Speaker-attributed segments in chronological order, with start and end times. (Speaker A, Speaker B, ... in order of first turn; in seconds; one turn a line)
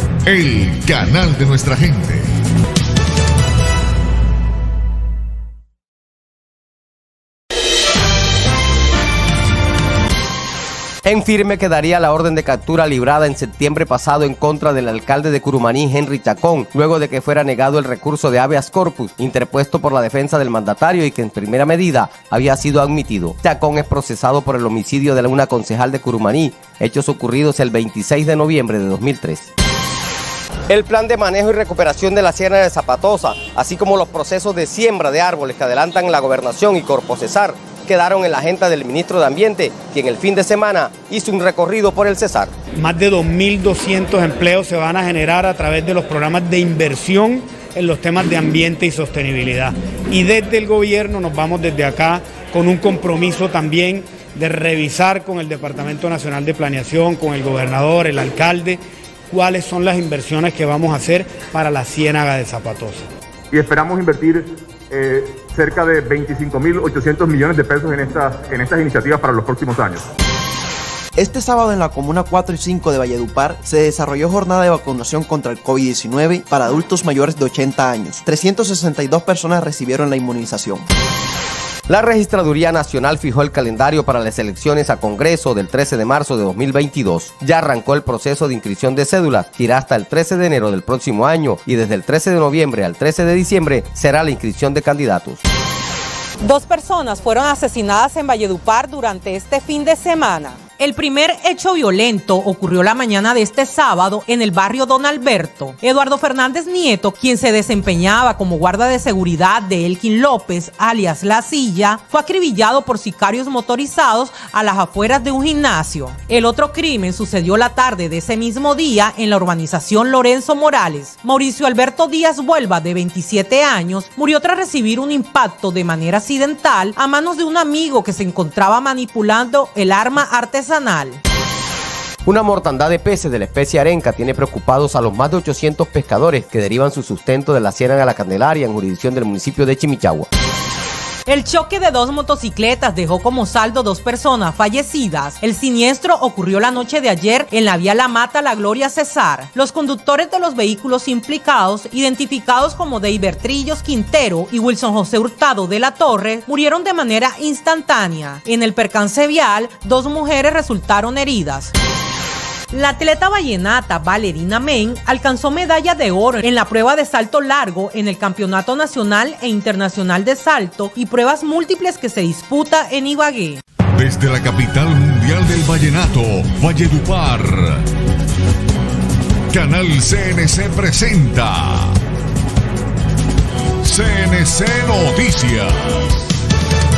Speaker A: 0.2-2.3
Speaker B: 11.0-29.5
Speaker B: 30.7-42.5
Speaker C: 42.8-63.0
Speaker D: 63.5-70.0
Speaker E: 71.2-80.8
Speaker B: 81.9-95.4
Speaker F: 96.4-131.2
Speaker B: 132.2-140.3
Speaker F: 141.3-161.7
Speaker F: 162.7-173.6
Speaker A: 173.9-177.8
Speaker A: 179.5-181.9
Speaker A: 183.8-186.0